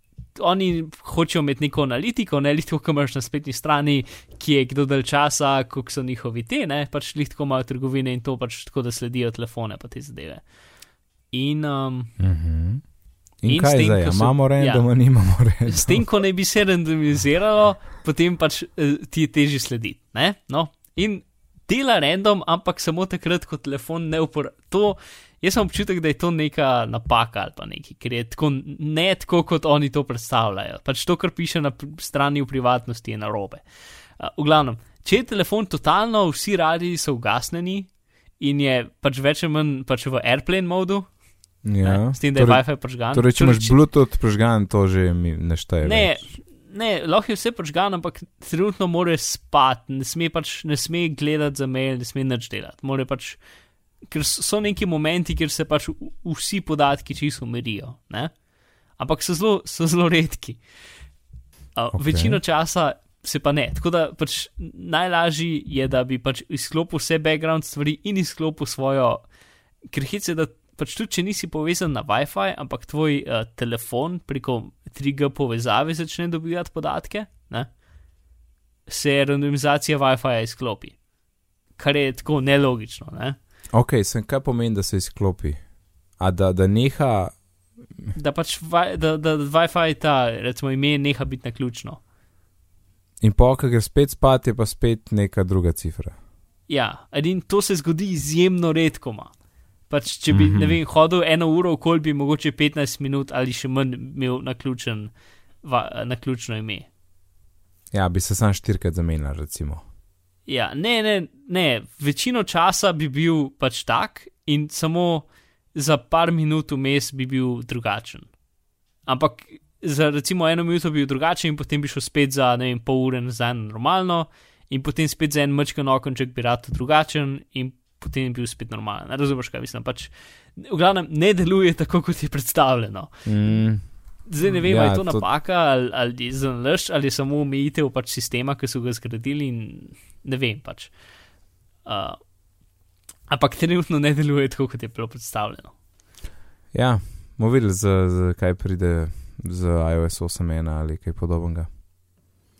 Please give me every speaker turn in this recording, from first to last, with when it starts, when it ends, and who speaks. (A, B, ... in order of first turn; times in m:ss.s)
0:00.3-0:10.5 A
0:11.3-0:12.1 A
0:12.2-0:16.0 B
0:13.5-0:43.8 A
0:41.6-0:46.3 B
0:45.8-0:53.4 A
0:54.1-0:58.3 A
0:59.0-1:00.6 A
1:01.7-1:09.3 A
1:01.9-1:02.4 B
1:09.9-1:17.8 A
1:18.9-1:21.0 A
1:21.7-1:23.4 A
1:23.7-1:27.4 B
1:28.1-1:32.0 A
1:33.2-1:36.2 B
1:36.7-1:39.3 A
1:39.9-1:46.9 A
1:40.3-1:40.8 B
1:47.9-1:49.8 B
1:50.4-1:58.3 A
1:59.0-2:21.0 A
2:13.2-2:15.3 B
2:21.8-2:22.4 A
2:23.3-2:25.8 A
2:26.7-2:31.7 B